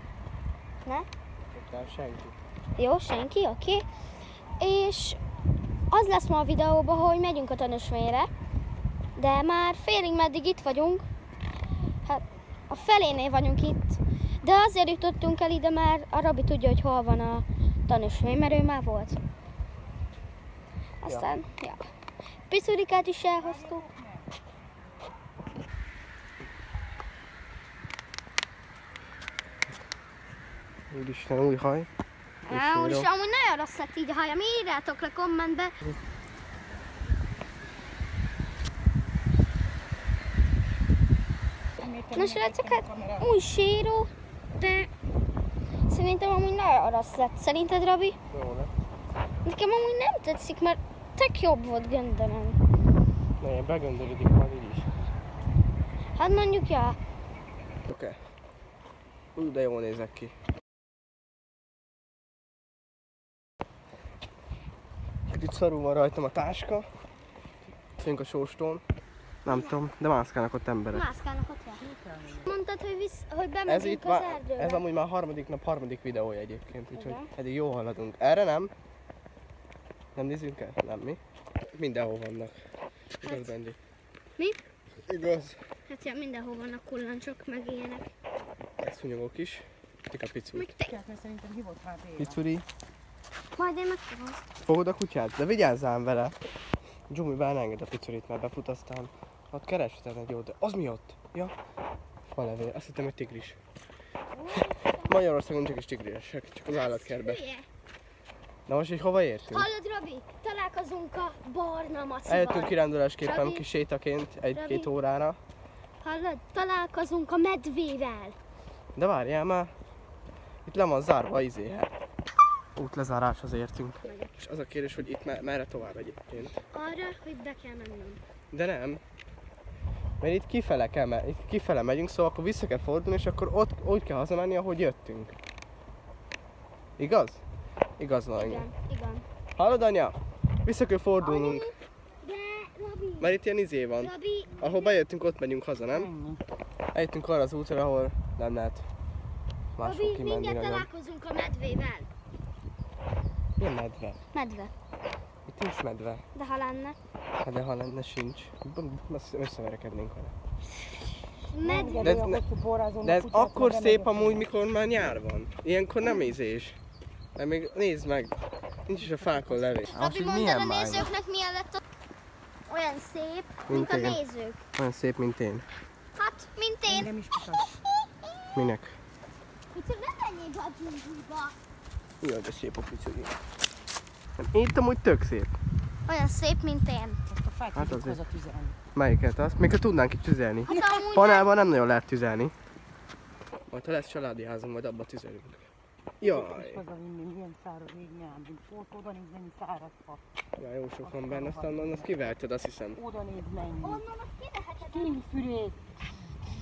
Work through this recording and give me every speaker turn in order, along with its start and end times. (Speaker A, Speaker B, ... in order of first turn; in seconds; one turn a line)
Speaker A: 1.5-2.4
Speaker B: 2.8-3.8
Speaker B: 4.6-5.2
Speaker B: 5.9-8.3
Speaker B: 9.2-11.1
Speaker B: 12.0-19.2
Speaker B: 21.0-21.9
Speaker A: 21.0-21.3
Speaker B: 22.5-23.9
Speaker C: 23.4-24.1
Speaker A: 30.9-31.9
Speaker A: 32.5-33.1
Speaker B: 32.5-35.7
Speaker C: 41.8-43.3
Speaker B: 42.1-44.9
Speaker B: 45.9-48.2
Speaker A: 48.3-48.7
Speaker B: 49.4-52.6
Speaker A: 53.4-54.9
Speaker B: 56.1-57.0
Speaker A: 57.9-58.2
Speaker A: 59.3-60.3
Speaker A: 65.3-66.9
Speaker A: 68.0-68.8
Speaker A: 69.4-71.0
Speaker B: 70.9-71.8
Speaker C: 71.7-72.5
Speaker B: 72.4-74.8
Speaker A: 73.7-78.7
Speaker B: 76.9-77.3
Speaker A: 80.1-81.2
Speaker A: 81.7-82.6
Speaker B: 83.2-83.5
Speaker A: 83.2-83.8
Speaker A: 85.0-85.6
Speaker B: 85.9-88.1
Speaker A: 88.8-90.7
Speaker B: 90.5-90.9
Speaker C: 90.8-92.4
Speaker A: 92.2-92.6
Speaker B: 93.5-94.4
Speaker A: 94.6-96.3
Speaker A: 97.1-101.5
Speaker A: 102.3-103.6
Speaker B: 104.3-105.2
Speaker A: 104.5-107.4
Speaker B: 106.7-107.7
Speaker A: 108.7-109.7
Speaker B: 109.5-113.7
Speaker A: 112.3-115.4
Speaker B: 114.5-114.9
Speaker B: 116.0-118.4
Speaker A: 119.0-119.7
Speaker A: 120.7-121.9
Speaker A: 122.8-126.6
Speaker B: 124.0-124.3
Speaker B: 126.6-128.2
Speaker A: 128.5-129.0
Speaker A: 130.2-135.3
Speaker A: 137.0-137.4
Speaker A: 138.0-138.7
Speaker B: 138.4-139.2
Speaker A: 139.6-141.7
Speaker B: 141.2-143.4
Speaker A: 143.2-146.1
Speaker B: 144.0-145.0
Speaker C: 145.9-146.4
Speaker A: 146.9-148.9
Speaker A: 149.8-150.9
Speaker B: 149.8-152.1
Speaker A: 153.6-154.2
Speaker B: 154.3-154.7
Speaker A: 155.5-156.2
Speaker B: 156.3-156.9
Speaker A: 157.4-160.3
Speaker B: 161.5-162.2
Speaker C: 161.6-164.5
Speaker A: 162.0-162.4
Speaker A: 163.0-166.8
Speaker A: 167.3-171.1
Speaker C: 168.9-169.8
Speaker B: 169.9-171.8
Speaker B: 172.7-174.6
Speaker A: 173.7-174.2
Speaker A: 174.8-175.7
Speaker B: 176.1-177.1
Speaker C: 176.8-177.8
Speaker A: 178.5-179.0
Speaker B: 179.7-181.5
Speaker A: 182.2-183.3
Speaker A: 184.4-185.5
Speaker B: 186.1-187.2
Speaker C: 187.3-188.8
Speaker A: 187.7-188.2
Speaker A: 188.9-192.5
Speaker B: 190.7-191.5
Speaker C: 190.7-191.0
Speaker A: 193.7-195.6
Speaker A: 196.2-196.8
Speaker C: 196.2-200.2
Speaker A: 200.6-203.0
Speaker C: 201.0-202.1
Speaker C: 202.9-204.1
Speaker B: 203.8-205.2
Speaker C: 204.8-205.8